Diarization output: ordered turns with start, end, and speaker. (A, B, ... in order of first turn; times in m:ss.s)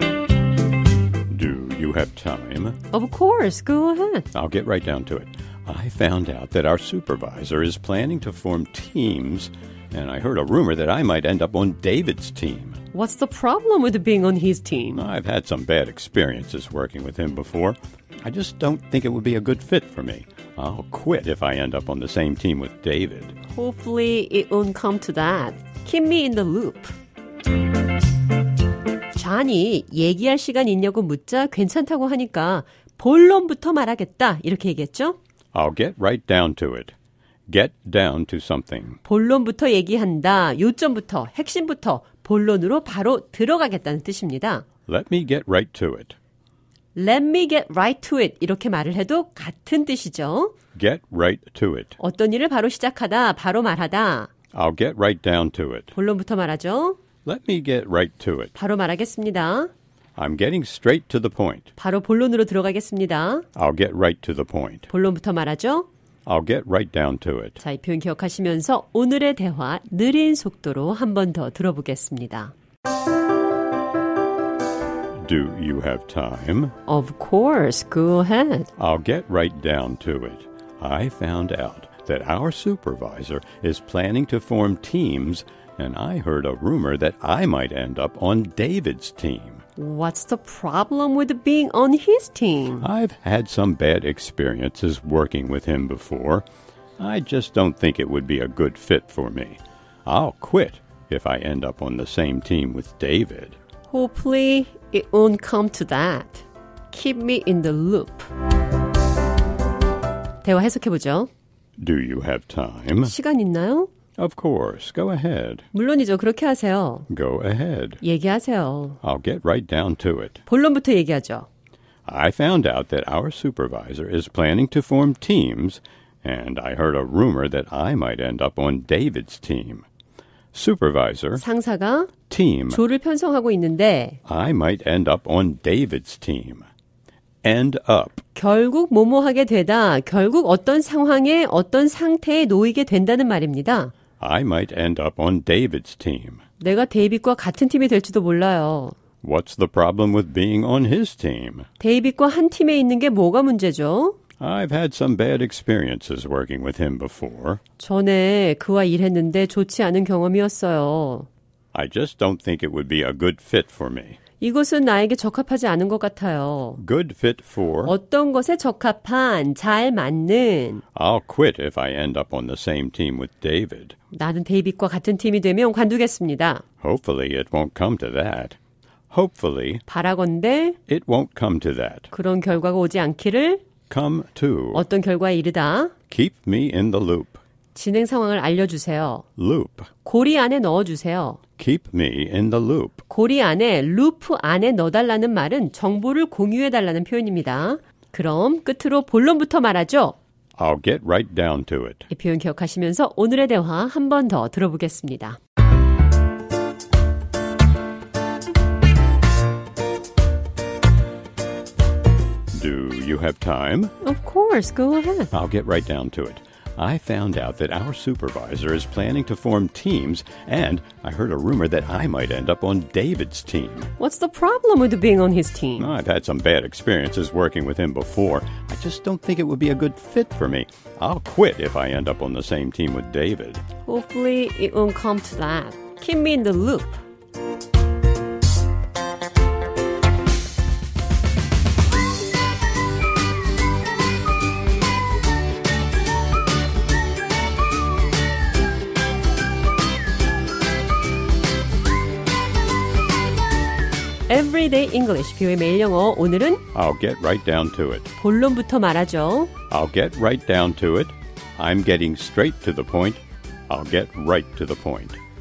0:01.3-0:02.8 A
0:02.9-0:04.3 B
0:04.3-0:12.8 A
0:12.9-0:15.1 B
0:15.0-0:23.4 A
0:23.5-0:26.9 B
0:29.1-0:35.2 B
0:35.5-0:36.9 A
0:37.5-0:39.0 A
0:39.0-0:44.7 B
0:44.9-0:46.2 A
0:47.0-0:50.5 B
0:50.8-0:52.0 A
0:52.0-0:54.3 B
0:54.5-0:56.0 A
0:55.9-0:57.0 B
0:57.2-0:58.6 A
0:58.6-0:59.7 B
1:00.2-1:01.7 A
1:01.8-1:03.4 B
1:03.6-1:04.9 A
1:04.9-1:05.9 B
1:06.3-1:07.6 A
1:07.6-1:12.5 B
1:15.2-1:16.8 A
1:16.9-1:18.7 B
1:18.8-1:29.6 A
1:29.8-1:32.9 B
1:32.8-1:36.4 A
1:37.0-1:43.6 A
1:43.9-1:48.3 B
1:50.4-1:51.3 B
1:51.8-1:53.1 A
1:53.0-1:53.9 B
1:54.2-1:55.6 A
1:55.7-1:57.1 B
1:57.1-1:58.0 A
1:58.0-1:59.0 B
1:59.0-2:00.4 A
2:00.5-2:01.5 B
2:02.1-2:09.9 A
2:10.5-2:11.4 A
2:11.4-2:12.1 B
2:12.3-2:12.8 A
2:12.7-2:14.2 B
2:14.3-2:16.7 A
2:17.4-2:18.2 A
2:18.4-2:23.9 B
2:24.2-2:26.4 A
2:26.6-2:29.0 B
2:29.2-2:31.7 A
2:31.8-2:34.2 B
2:34.4-2:37.6 A
2:37.8-2:41.3 B
2:41.7-2:44.2 A
2:44.4-2:46.8 B
2:46.8-2:47.9 A
2:47.9-2:50.8 B
2:51.0-2:54.0 A
2:54.1-2:56.6 B
2:56.8-2:58.6 A
2:59.1-2:59.8 A
2:59.9-3:00.8 B
3:00.9-3:02.1 A
3:02.1-3:03.6 B
3:03.9-3:04.8 A
3:04.7-3:05.9 B
3:06.1-3:07.4 A
3:07.8-3:09.2 B
3:09.4-3:09.9 A
3:10.0-3:11.4 B
3:11.6-3:13.0 A
3:13.1-3:20.2 B
3:20.6-3:22.1 A
3:22.1-3:25.4 B
3:32.5-3:33.9 A
3:34.0-3:35.3 B
3:35.3-3:43.9 A
3:44.0-3:45.9 B
3:45.8-3:53.6 A
3:53.9-3:57.0 B
4:14.3-4:16.6 B
4:16.7-4:18.1 A
4:18.2-4:19.5 B
4:19.7-4:25.2 A